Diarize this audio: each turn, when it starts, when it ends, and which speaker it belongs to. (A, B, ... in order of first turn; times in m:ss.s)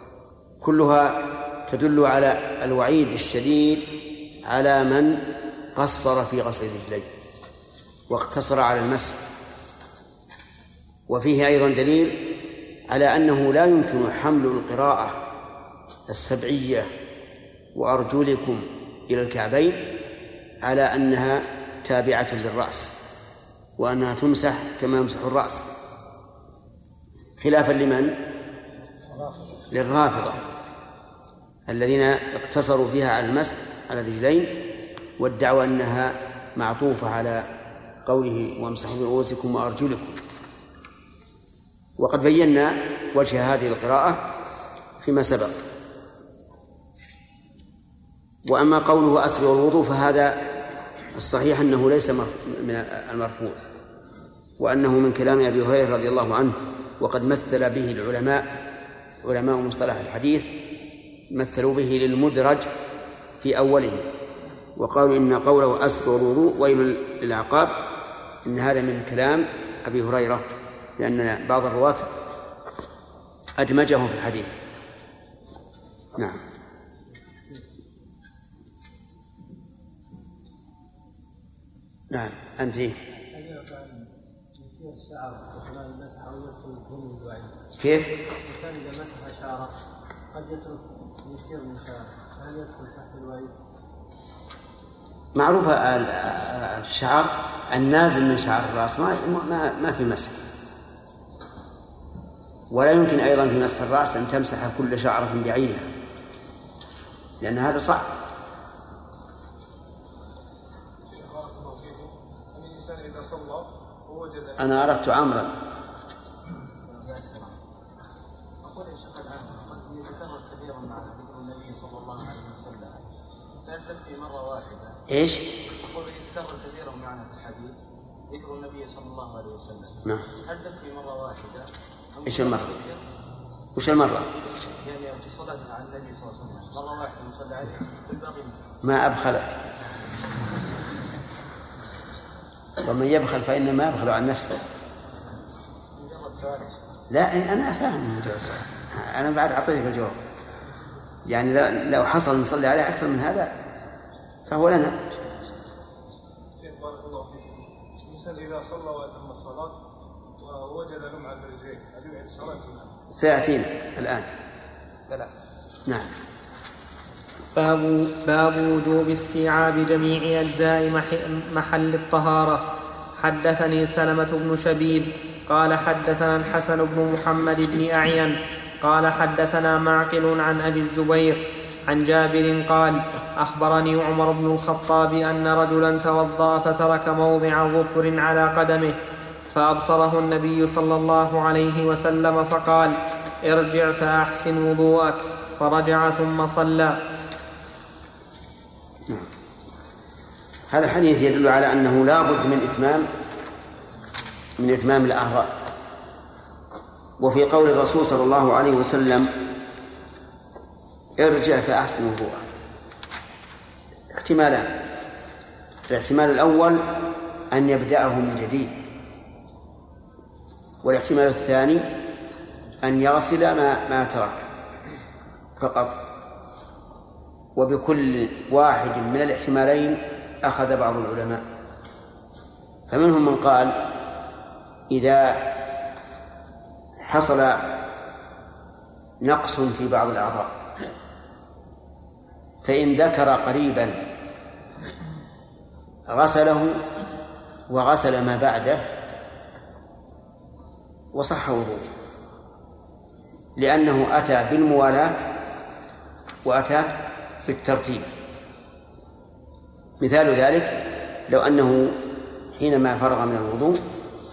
0:00.6-0:03.8 A
0:04.4-0:07.1 A
0:08.1-0:09.2 A
0:11.1-0:12.3 A
0:12.9-0:15.2 A
0:16.1-0:16.9 A
0:17.7-0:19.8 A
0:20.6-0:22.9 A
0:23.8-0:25.6 A
0:27.4-0:28.2 A
0:29.7-0:30.4 A
0:31.7-0:34.6 A
0:35.2-0:37.4 A
0:38.0-0:40.2 A
0:42.0-0:44.3 A
0:45.0-0:45.6 A
0:48.4-0:50.4 A
0:51.1-0:53.6 A
0:54.6-0:58.5 A
0:59.2-1:00.5 A
1:01.3-1:02.7 A
1:03.4-1:04.1 A
1:04.8-1:07.7 A
1:08.4-1:12.1 A
1:13.6-1:14.6 A
1:16.2-1:16.4 A
1:22.1-1:23.0 A
1:23.3-1:27.5 B
1:27.8-1:28.1 A
1:28.4-1:29.7 B
1:30.3-1:33.5 B
1:35.3-1:40.4 A
1:42.7-1:45.9 A
1:47.4-1:48.1 A
1:51.1-1:55.0 C
1:54.6-1:55.5 A
1:56.9-1:57.6 B
1:58.6-2:03.0 B
2:03.6-2:05.0 B
2:05.1-2:05.5 A
2:05.8-2:07.7 B
2:08.3-2:11.6 B
2:12.2-2:13.0 B
2:12.2-2:12.8 A
2:13.8-2:14.3 A
2:14.7-2:18.7 B
2:18.8-2:19.6 A
2:22.8-2:24.6 A
2:25.2-2:26.8 B
2:27.1-2:30.2 A
2:31.2-2:33.5 A
2:34.5-2:35.0 A
2:36.6-2:39.8 C
2:40.4-2:42.9 C
2:43.1-2:44.3 A
2:45.9-2:46.1 A
2:47.5-2:52.6 D
2:53.2-3:09.0 D
3:09.5-3:12.9 D
3:13.4-3:17.0 D
3:20.7-3:23.1 A
3:24.6-3:25.5 A
3:27.2-3:29.3 A
3:31.2-3:32.4 A
3:34.1-3:34.8 A
3:35.9-3:38.7 A
3:40.8-3:41.8 A
3:42.8-3:44.4 A
3:45.6-3:46.0 A
3:47.5-3:51.4 A
3:52.9-3:53.8 A
3:54.9-3:55.5 A
3:57.0-3:57.8 A
3:59.2-4:00.5 A
4:02.6-4:04.0 A
4:06.1-4:06.8 A
4:07.7-4:08.8 A
4:11.1-4:11.8 A
4:13.6-4:15.3 A
4:16.4-4:18.1 A
4:20.0-4:23.8 A